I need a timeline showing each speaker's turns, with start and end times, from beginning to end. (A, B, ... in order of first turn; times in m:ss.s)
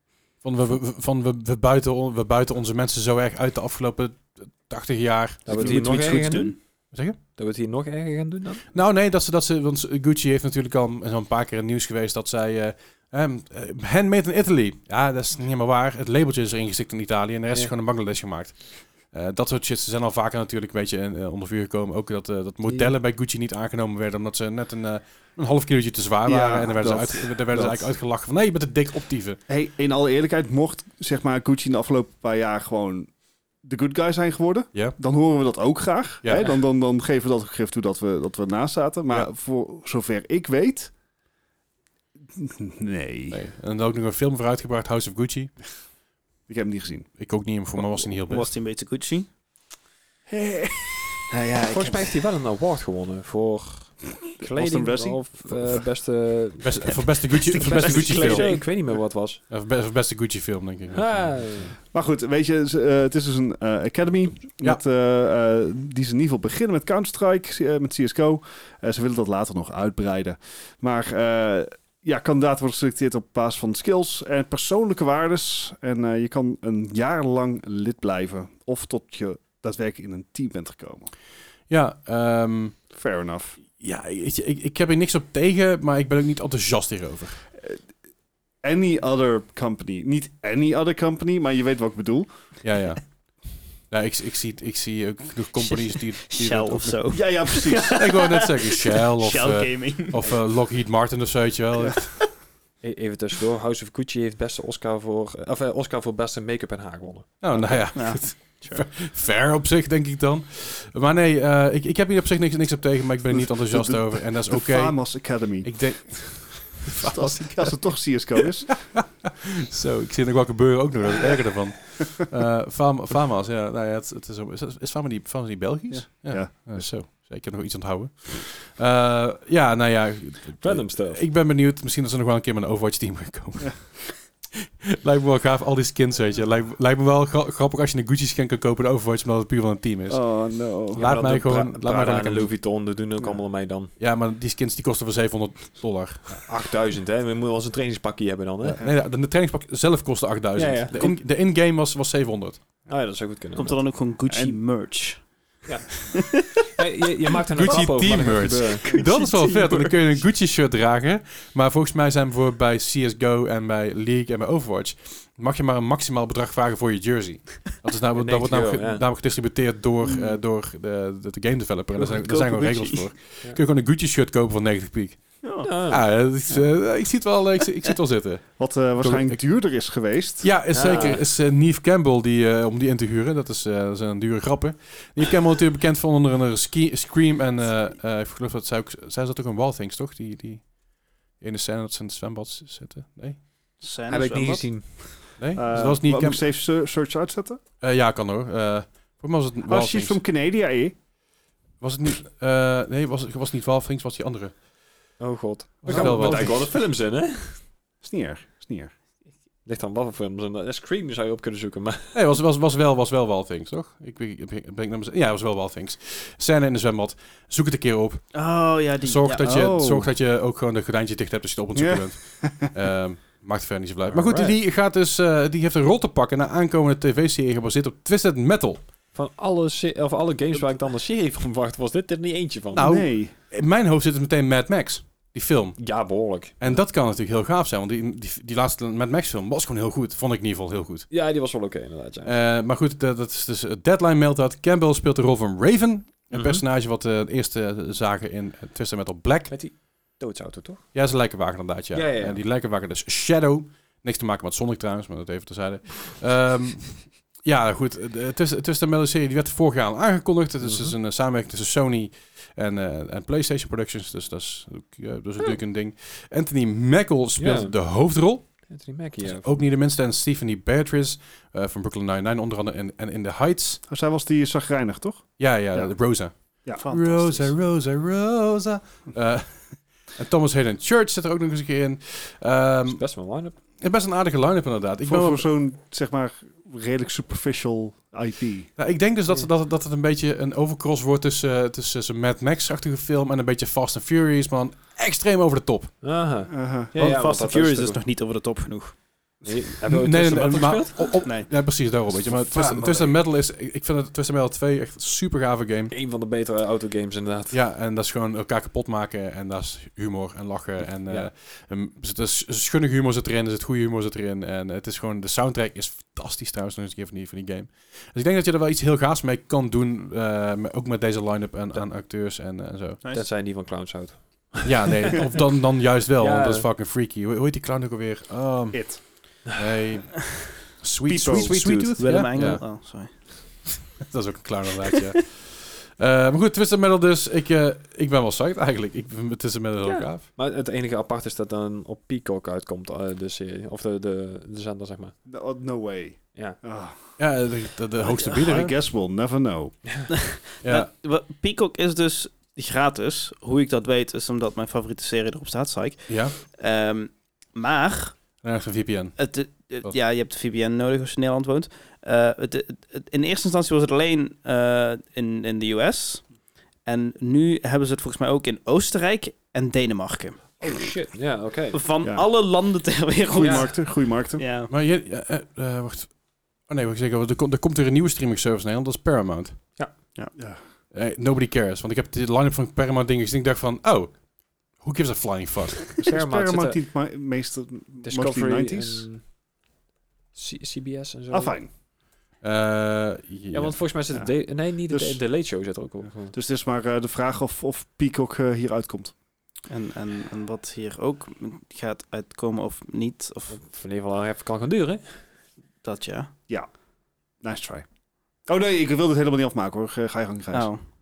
0:00.4-0:07.2 A
0:05.5-0:06.6 B
0:05.5-0:06.6 C
0:07.4-0:08.8 B
0:08.7-0:29.4 A
0:26.2-0:27.9 D
0:29.5-0:33.1 D
0:33.6-0:40.9 D
0:36.2-0:36.5 A
0:42.3-0:43.4 D
0:43.3-0:45.6 A
0:46.5-0:47.1 D
0:47.2-0:48.5 A
0:48.0-0:49.3 C
0:50.3-0:52.2 D
0:51.7-0:59.4 B
0:54.4-0:55.8 D
0:56.6-0:58.5 A
0:57.5-0:58.6 C
0:59.5-1:01.6 A
1:00.9-1:01.8 B
1:01.8-1:21.1 D
1:21.7-1:22.8 A
1:22.9-1:23.6 D
1:23.8-1:27.5 A
1:28.6-1:32.3 D
1:32.6-1:37.0 A
1:35.7-1:40.3 C
1:37.1-1:38.0 D
1:37.9-1:42.2 A
1:42.8-1:47.4 B
1:47.4-2:20.3 A
1:47.9-1:48.9 C
1:53.3-1:56.2 D
1:56.9-1:59.0 D
2:05.9-2:06.9 D
2:10.6-2:11.2 B
2:20.1-2:21.1 D
2:20.9-2:22.5 A
2:21.0-2:23.9 B
2:24.0-2:26.5 A
2:26.3-2:28.8 B
2:28.6-2:29.0 D
2:28.8-2:32.6 A
2:30.6-2:31.0 B
2:32.9-2:33.8 B
2:33.6-2:36.6 C
2:34.3-2:34.6 D
2:35.7-2:35.9 B
2:36.6-2:39.1 B
2:37.5-2:59.5 A
2:37.6-2:39.9 C
2:48.2-2:49.1 B
2:50.1-2:50.3 C
2:52.0-2:53.1 C
2:55.4-2:55.7 C
2:55.6-2:56.2 B
2:58.6-3:01.1 D
3:00.4-3:10.8 A
3:00.7-3:01.2 B
3:11.3-3:13.4 A
3:13.8-3:15.0 C
3:14.1-3:15.4 B
3:15.4-3:16.4 A
3:15.5-3:17.6 D
3:17.8-3:20.2 A
3:19.7-3:21.0 D
3:21.8-3:24.6 A
3:25.2-3:27.6 B
3:25.8-3:26.7 A
3:25.9-3:26.7 D
3:28.0-3:28.9 D
3:29.7-3:32.2 B
3:32.1-3:48.9 A
3:38.3-3:39.5 C
3:39.4-3:40.1 D
3:41.8-3:42.7 D
3:44.1-3:44.6 B
3:49.1-3:52.9 B
3:52.7-3:55.9 A
3:52.8-3:53.3 D
3:55.8-3:56.7 B
3:56.6-4:01.1 A
4:01.1-4:02.3 B
4:02.2-4:09.5 A
4:06.3-4:06.6 B
4:09.5-4:10.9 B
4:10.9-4:33.8 A
4:11.9-4:12.4 B
4:20.6-4:21.0 B
4:27.4-4:27.8 B
4:28.7-4:29.6 B
4:33.9-4:36.0 D
4:35.4-4:43.0 A
4:36.8-4:37.5 C
4:42.9-4:43.6 B
4:43.8-4:45.5 A
4:45.0-4:48.7 D
4:48.8-4:56.0 A
4:56.0-4:58.0 B
4:56.5-4:56.9 D
4:56.9-4:59.2 C
4:59.4-5:01.3 B
4:59.9-5:05.9 A
5:01.2-5:01.5 C
5:02.5-5:03.1 B
5:02.7-5:03.0 D
5:05.9-5:07.6 B
5:07.5-5:23.0 A
5:23.1-5:25.4 B
5:24.6-5:32.7 A
5:26.2-5:26.7 B
5:28.7-5:29.0 D
5:31.1-5:32.0 D
5:31.2-5:33.8 C
5:34.0-5:40.3 A
5:39.8-5:45.2 B
5:45.3-5:47.2 D
5:47.2-5:48.8 A
5:48.0-5:49.8 D
5:50.2-5:58.2 C
5:50.6-5:50.9 A
5:56.1-5:56.4 A
5:58.4-6:00.0 A
5:59.2-6:06.3 C
6:06.8-6:11.0 C
6:10.6-6:11.8 B
6:11.7-6:14.7 C
6:12.0-6:12.3 D
6:13.3-6:14.4 D
6:13.4-6:13.7 B
6:14.7-6:19.6 A
6:20.4-6:20.6 D
6:20.9-6:25.9 A
6:26.0-6:29.1 D
6:26.1-6:26.8 B
6:28.0-6:29.2 B
6:30.4-6:31.6 B
6:31.3-6:31.7 D
6:32.4-6:33.8 A
6:33.5-6:36.4 B
6:34.8-6:35.2 D
6:36.3-6:39.1 D
6:39.7-6:43.6 C
6:43.5-6:45.3 B
6:45.8-6:46.3 C
6:47.4-6:47.8 D
6:48.5-6:50.7 D
6:50.5-6:50.8 C